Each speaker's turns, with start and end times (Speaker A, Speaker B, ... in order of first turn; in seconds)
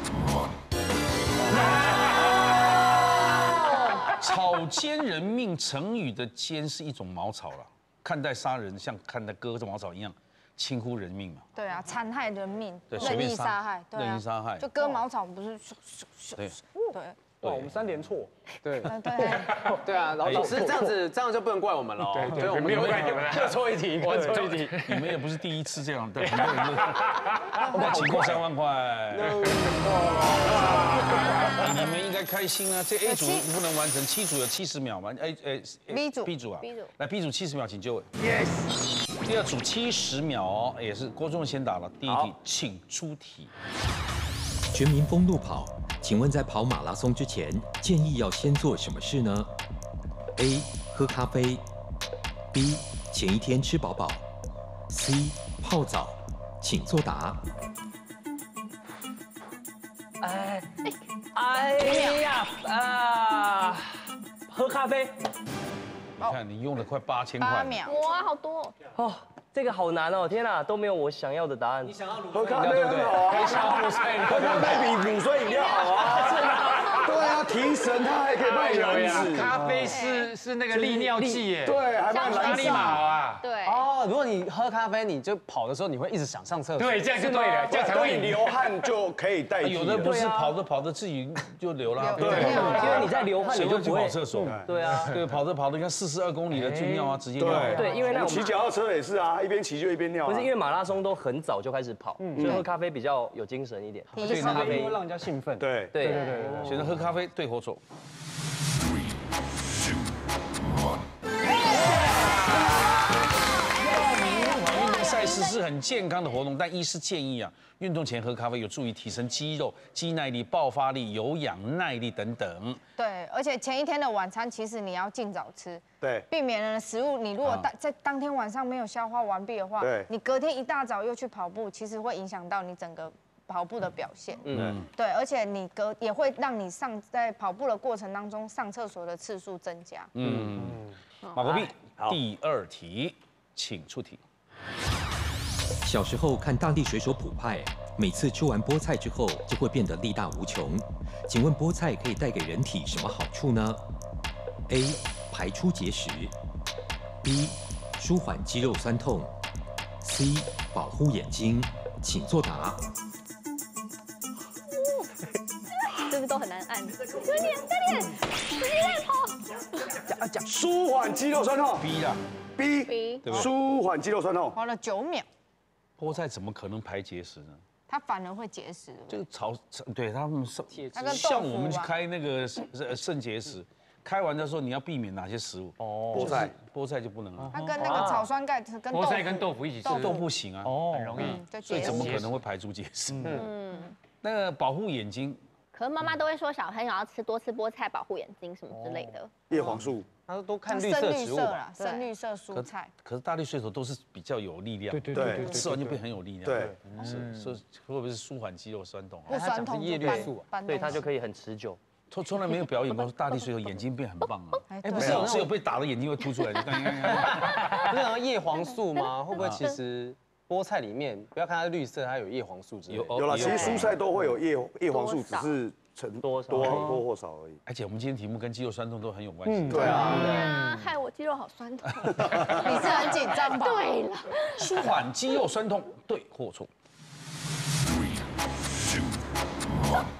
Speaker A: 1.5-1.8, 4.0-11.4, 12.9-14.7, 17.4-17.7, 20.2-20.6, 22.7-23.2, 24.8-29.7, 30.5-38.1, 39.2-43.5, 66.2-67.8, 89.6-97.9, 104.2-104.7, 106.6-107.8, 113.9-122.8, 127.4-127.7, 134.5-134.9, 140.1-144.2, 171.8-172.2, 173.2-173.5, 176.0-177.6, 179.1-187.6, 189.8-190.8, 191.7-193.4, 194.2-195.4, 202.5-209.5, 212.1-217.9, 219.3-219.6, 222.9-224.0, 227.7-230.2, 234.6-236.7
Speaker B: 11.5-17.2, 18.9-19.7, 27.6-28.4, 33.0-33.5, 35.9-36.3, 61.8-62.2, 67.4-68.0, 92.0-93.2, 104.1-104.9, 123.0-140.1, 174.5-175.3, 177.9-179.2, 180.9-181.9, 187.5-190.2, 191.2-192.2, 200.7-202.9, 207.0-207.2, 209.3-211.1, 214.7-215.5, 232.5-233.9
Speaker C: 16.9-18.3, 18.8-20.9, 22.2-22.6, 24.0-24.6, 64.5-65.0, 92.7-93.8, 94.3-95.2, 96.5-98.4, 102.2-102.7, 104.2-107.0, 111.7-112.3, 113.8-114.8, 170.1-170.5, 185.8-186.4, 187.5-188.1, 190.6-191.4, 193.1-193.5, 198.8-199.1, 204.9-206.0, 229.4-230.6
Speaker D: 18.6-24.8, 29.3-30.3, 72.5-74.5, 83.6-87.6, 180.7-181.2, 187.7-188.3, 193.2-193.5, 200.3-201.6, 209.3-210.5, 215.0-215.5, 217.0-223.5
Speaker E: 22.1-25.2, 26.2-28.0, 29.3-31.5, 73.2-74.7, 76.3-77.1, 78.3-83.4, 86.8-88.7, 92.1-93.0, 188.9-190.2, 190.9-192.4, 205.2-205.5, 206.9-207.5
Speaker F: 36.6-36.9, 67.8-68.7, 75.4-76.8, 79.8-80.3, 82.1-83.8, 114.5-115.6, 141.2-141.7, 165.8-169.4, 172.8-173.5, 193.3-193.9, 195.7-199.3, 218.9-219.7, 223.3-223.9, 224.9-225.5, 230.0-234.9
Speaker G: 44.7-49.5, 50.4-51.6, 52.5-54.2, 54.9-57.4, 145.8-153.8, 154.7-156.3, 157.2-159.3, 160.0-162.8
Speaker H: 60.2-60.8, 61.3-63.9, 64.5-64.9, 68.9-72.0, 90.0-90.5, 92.4-95.1, 97.5-98.6, 100.2-105.0, 105.9-106.7, 134.5-134.7, 200.9-202.0, 210.0-211.8, 226.2-227.0
Speaker I: 72.3-79.7, 81.6-83.1, 87.7-90.2, 92.2-92.9, 97.4-100.5, 102.3-102.6, 105.6-105.9, 126.0-126.3, 129.8-130.1, 134.5-134.8, 170.4-171.9, 172.6-174.6, 186.1-186.5, 199.5-200.1, 205.1-205.6, 206.4-206.7, 215.0-215.3, 223.2-227.6, 229.7-230.4